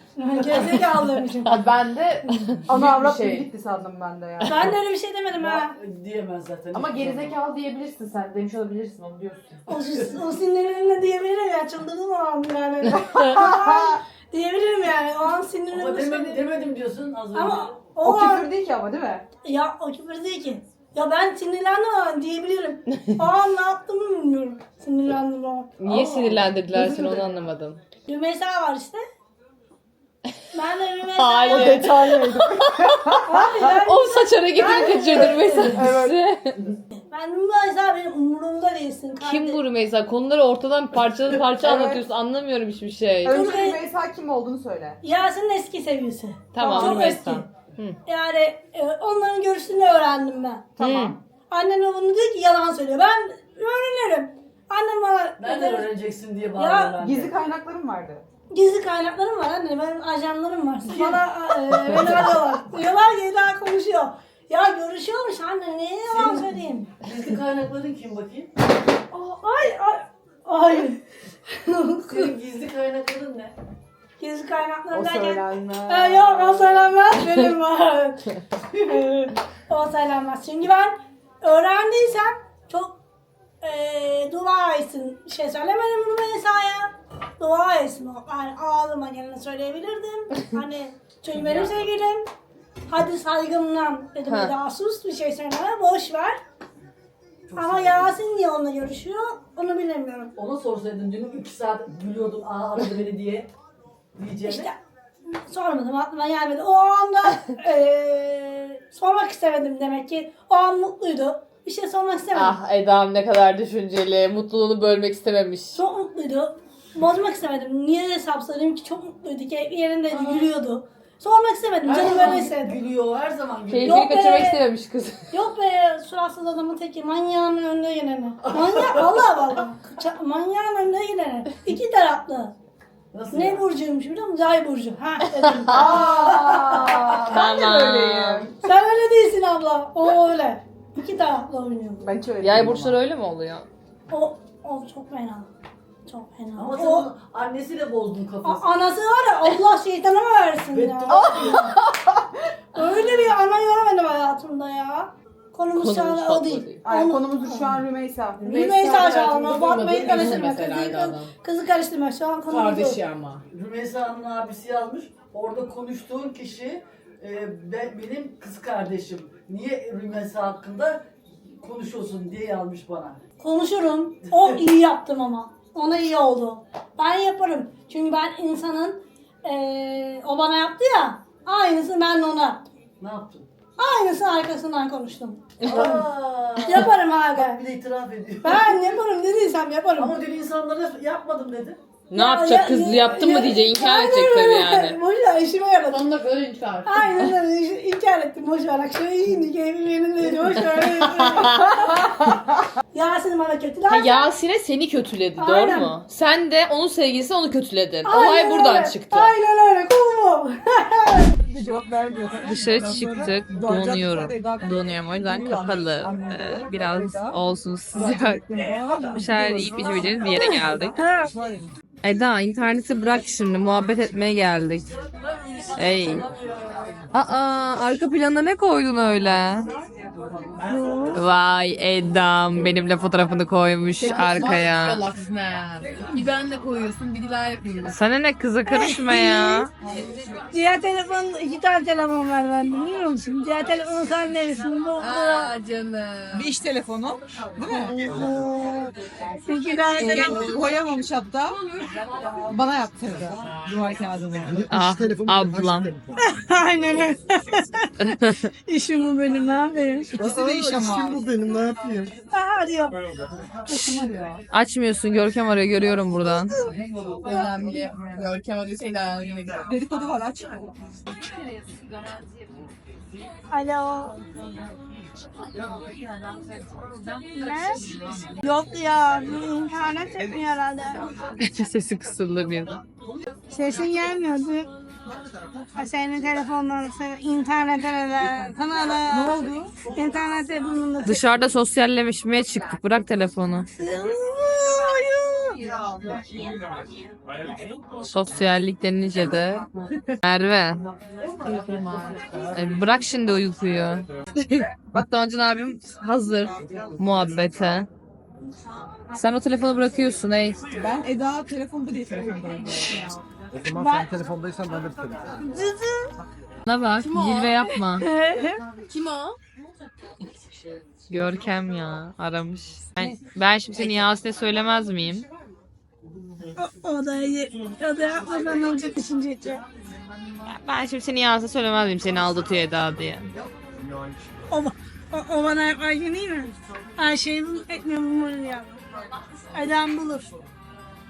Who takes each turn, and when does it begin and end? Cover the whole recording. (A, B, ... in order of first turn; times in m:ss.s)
0:00.2-0:01.6 A
0:01.4-0:03.5 B
0:02.6-0:04.7 C
0:04.4-0:05.7 A
0:05.3-0:07.4 D
0:06.7-0:09.6 E
0:09.7-0:16.6 A
0:13.1-0:14.0 C
0:15.7-0:18.0 D
0:17.3-0:18.5 A
0:18.0-0:19.2 C
0:19.4-0:26.3 A
0:25.8-0:27.8 E
0:27.0-0:27.4 D
0:28.1-0:29.0 A
0:30.5-0:32.1 A
0:31.2-0:36.8 E
0:31.5-0:33.7 C
0:33.2-0:35.2 A
0:34.5-0:36.2 C
0:36.9-0:39.6 A
0:39.2-0:43.5 E
0:41.6-0:42.0 C
0:43.2-0:45.0 C
0:43.3-0:43.8 A
0:45.0-0:47.5 A
0:46.5-0:48.0 E
0:46.6-0:47.2 C
0:48.0-0:50.9 A
0:50.8-0:51.2 E
0:50.8-0:51.2 C
0:51.5-0:55.9 A
0:55.4-0:57.4 D
0:56.5-0:57.0 A
0:57.0-0:58.2 C
0:58.5-1:07.0 A
1:00.8-1:02.3 D
1:06.0-1:08.5 D
1:09.1-1:12.3 A
1:12.0-1:13.5 D
1:14.2-1:23.0 A
1:14.9-1:16.9 C
1:23.6-1:32.3 A
1:31.3-1:31.8 D
1:32.9-1:36.4 A
1:34.2-1:34.5 E
1:37.5-1:38.2 D
1:37.5-1:40.3 A
1:40.4-1:43.5 D
1:44.2-1:44.7 D
1:44.4-1:44.7 A
1:45.2-1:52.6 A
1:52.3-1:55.8 E
1:55.7-2:02.8 A
2:00.1-2:00.5 D
2:01.8-2:04.2 D
2:03.7-2:05.3 E
2:03.8-2:04.6 A
2:05.3-2:12.5 A
2:08.4-2:09.3 D
2:13.1-2:13.7 D
2:13.3-2:16.2 A
2:15.4-2:17.4 D
2:15.6-2:18.6 C
2:17.2-2:18.5 E
2:18.6-2:22.0 A
2:22.0-2:22.9 C
2:22.4-2:23.7 E
2:24.1-2:25.5 A
2:26.1-2:27.1 A
2:26.6-2:28.7 D
2:28.4-2:31.6 A
2:30.7-2:31.8 D
2:31.1-2:32.2 C
2:32.7-2:37.8 A
2:35.7-2:36.8 E
2:36.8-2:39.3 C
2:38.4-2:43.0 A
2:38.4-2:41.3 B
2:40.1-2:40.4 E
2:42.5-2:43.4 B
2:43.5-2:53.2 D
2:53.4-3:02.6 A
2:54.3-2:54.6 D
3:03.0-3:03.5 D
3:03.8-3:07.6 A
3:05.6-3:08.9 D
3:08.4-3:10.2 A
3:10.0-3:11.8 D
3:12.1-3:15.0 E
3:12.1-3:16.1 A
3:15.9-3:16.8 B
3:16.8-3:22.0 A
3:20.6-3:22.1 E
3:22.9-3:24.3 A
3:23.9-3:29.3 E
3:25.4-3:25.9 A
3:28.0-3:31.3 A
3:31.4-3:37.4 C
3:32.4-3:41.0 E
3:38.0-3:40.3 C
3:41.0-3:41.3 A
3:41.2-3:41.6 C
3:42.0-3:44.9 E
3:45.7-3:46.8 D
3:45.7-3:46.3 E
3:47.1-3:49.7 E
3:50.7-3:51.2 A
3:51.1-3:55.0 E
3:54.0-3:57.9 B
3:57.9-3:59.7 E
3:58.6-3:59.6 A
4:00.5-4:05.5 A
4:05.0-4:06.5 B
4:05.2-4:05.5 C
4:06.3-4:08.2 C
4:08.0-4:10.6 A
4:10.0-4:11.6 C
4:12.4-4:14.6 C
4:14.4-4:16.2 F
4:14.7-4:15.9 E
4:16.2-4:17.9 A
4:18.6-4:20.1 A
4:20.1-4:22.1 F
4:20.2-4:21.2 C
4:22.3-4:23.0 A
4:23.7-4:24.0 A
4:23.7-4:24.4 C
4:24.5-4:26.6 E
4:27.2-4:30.7 C
4:27.2-4:29.6 B
4:33.5-4:34.2 A
4:37.3-4:37.9 A
4:38.4-4:41.0 A
4:41.4-4:42.8 E
4:43.5-4:44.7 A
4:45.8-4:51.2 A
4:49.1-4:49.7 C
4:51.0-4:53.7 E
4:53.8-4:55.6 A
4:58.0-4:59.6 E
5:00.2-5:00.8 E
5:01.4-5:02.4 C
5:02.5-5:07.9 E
5:09.1-5:10.6 E
5:10.8-5:13.1 C
5:13.5-5:15.4 F
5:13.8-5:14.1 A
5:15.4-5:16.1 A
5:16.6-5:18.1 E
5:17.0-5:17.8 B
5:18.0-5:18.6 A
5:18.8-5:19.4 B
5:21.1-5:25.3 E
5:26.6-5:29.6 A
5:30.4-5:33.3 E
5:33.6-5:34.2 F
5:34.5-5:38.8 A
5:39.5-5:40.3 A